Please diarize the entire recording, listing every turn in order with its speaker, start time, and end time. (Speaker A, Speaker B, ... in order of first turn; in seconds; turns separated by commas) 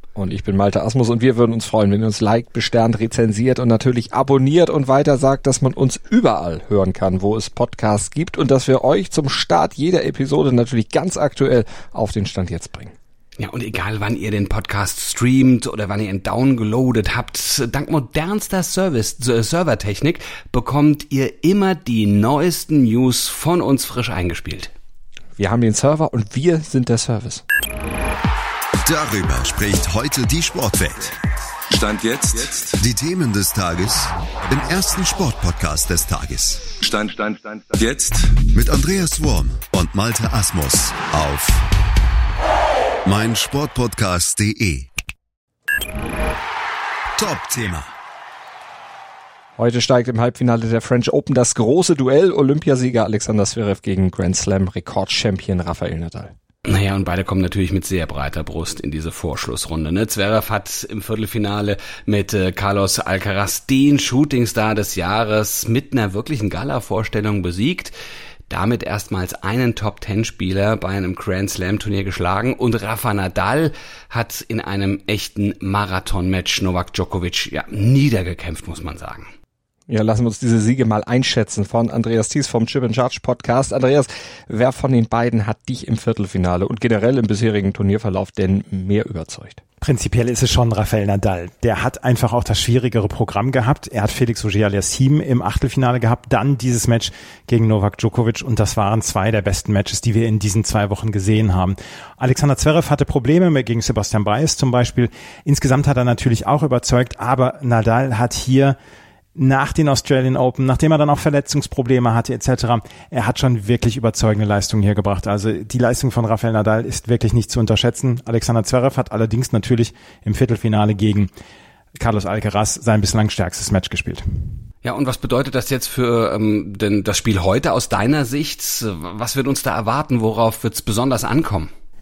Speaker A: 0.1-12.9, Speaker B: 13.4-24.7, Speaker A: 25.4-27.4, Speaker C: 28.8-31.0, Speaker D: 31.7-32.7, Speaker C: 32.8-36.6, Speaker D: 36.9-38.3, Speaker C: 38.5-41.6, Speaker C: 43.0-44.9, Speaker C: 47.2-47.9, Speaker A: 49.6-56.3, Speaker B: 56.6-67.9, Speaker B: 68.5-79.3, Speaker A: 79.9-89.6, Speaker E: 89.8-108.8, Speaker E: 109.3-121.3, Speaker E: 122.0-124.2, Speaker B: 124.8-131.7